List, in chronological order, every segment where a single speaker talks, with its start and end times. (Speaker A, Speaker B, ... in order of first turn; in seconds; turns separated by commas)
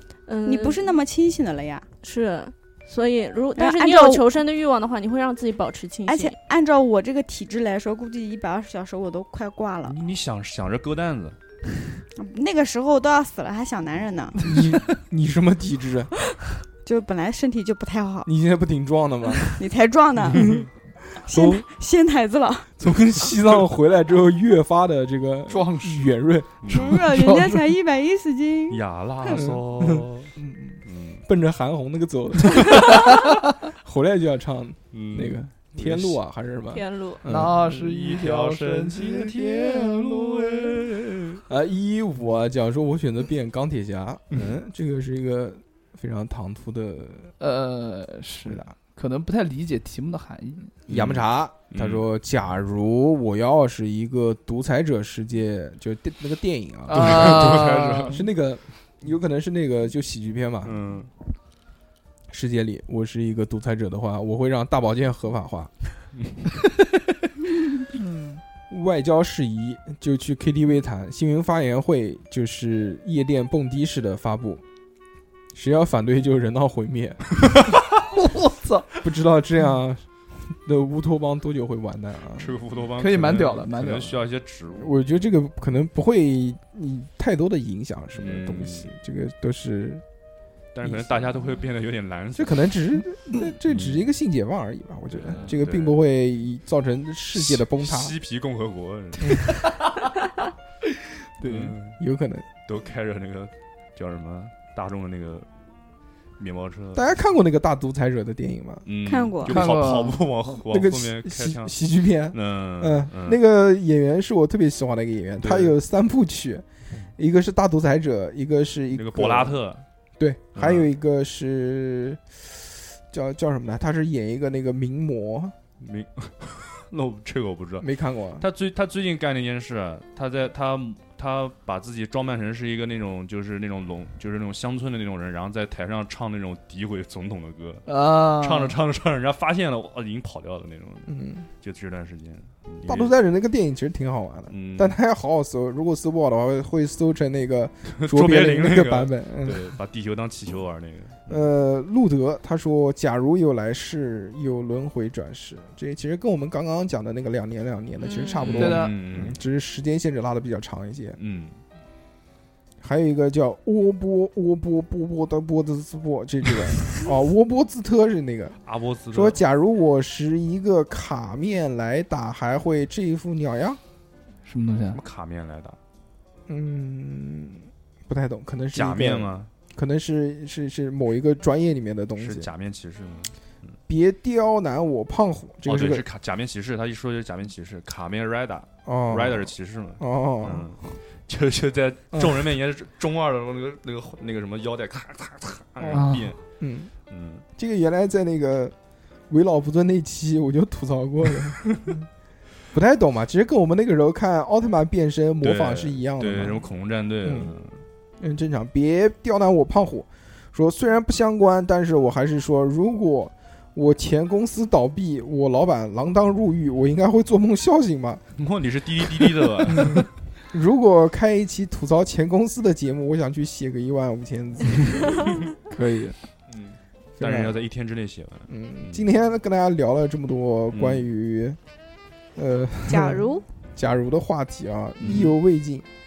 Speaker A: 0.3-1.0, Speaker B: 0.5-1.9, Speaker A: 2.0-6.4, Speaker B: 3.5-4.2, Speaker B: 6.1-9.9, Speaker C: 9.8-11.4, Speaker B: 12.2-14.5, Speaker D: 14.4-16.1, Speaker B: 16.8-18.3, Speaker D: 18.2-19.6, Speaker B: 19.5-22.7, Speaker D: 21.2-21.6, Speaker D: 22.8-26.6, Speaker E: 25.5-26.1, Speaker C: 26.6-26.9, Speaker E: 26.7-27.7, Speaker B: 26.7-28.8, Speaker C: 28.7-30.3, Speaker D: 29.3-37.6, Speaker C: 30.8-31.2, Speaker C: 34.9-36.2, Speaker A: 36.7-37.2, Speaker E: 37.3-40.7, Speaker C: 37.6-41.4, Speaker D: 41.5-47.3, Speaker E: 47.4-50.7, Speaker D: 50.9-60.8, Speaker C: 50.9-52.0, Speaker E: 56.9-58.2, Speaker C: 56.9-58.2, Speaker C: 60.6-61.1, Speaker D: 62.3-65.7, Speaker E: 67.9-68.4, Speaker D: 68.7-74.6, Speaker D: 75.5-77.2, Speaker E: 78.0-78.9, Speaker D: 79.0-82.5, Speaker C: 82.3-85.2, Speaker E: 83.0-84.2, Speaker D: 84.7-90.0, Speaker C: 88.1-88.9, Speaker C: 90.7-92.8, Speaker D: 90.8-91.4, Speaker D: 92.3-98.1, Speaker C: 93.7-94.1, Speaker C: 95.1-96.0, Speaker C: 97.3-99.5, Speaker E: 101.4-101.8, Speaker C: 101.4-102.0, Speaker D: 102.0-102.5, Speaker C: 102.7-105.5, Speaker C: 106.4-107.1, Speaker D: 106.9-108.8, Speaker C: 108.8-111.8, Speaker B: 109.0-109.5, Speaker E: 109.4-110.2, Speaker D: 110.7-116.6, Speaker C: 112.3-113.4, Speaker C: 115.4-115.7, Speaker D: 117.2-119.6, Speaker C: 118.9-119.8, Speaker D: 120.2-125.5, Speaker C: 120.5-120.9, Speaker C: 125.8-143.1, Speaker D: 127.8-128.5, Speaker E: 137.9-138.7, Speaker D: 141.1-141.5, Speaker D: 142.8-149.8, Speaker C: 144.5-145.0, Speaker C: 147.9-151.4, Speaker D: 151.3-161.2, Speaker A: 158.0-158.6, Speaker C: 158.4-159.4, Speaker E: 158.5-158.9, Speaker C: 161.2-161.6, Speaker D: 162.8-168.6, Speaker C: 168.6-169.4, Speaker D: 169.1-173.8, Speaker E: 174.4-175.0, Speaker C: 174.9-175.8, Speaker D: 176.5-182.5, Speaker C: 178.7-179.5, Speaker C: 182.2-183.3, Speaker D: 183.9-186.0, Speaker C: 185.7-196.4, Speaker D: 188.8-190.7, Speaker D: 192.1-192.5, Speaker D: 195.8-196.9, Speaker E: 195.9-196.3, Speaker C: 197.1-197.4, Speaker D: 197.6-198.7, Speaker D: 199.3-201.8, Speaker D: 202.7-206.6, Speaker C: 205.4-207.8, Speaker D: 207.2-207.5, Speaker D: 208.2-218.2, Speaker C: 218.4-220.1, Speaker D: 219.2-225.4, Speaker E: 225.7-226.1, Speaker C: 226.5-229.1, Speaker D: 227.2-227.6, Speaker D: 228.5-231.6, Speaker C: 230.7-231.1, Speaker D: 232.3-235.9, Speaker A: 232.9-233.4, Speaker C: 235.0-235.3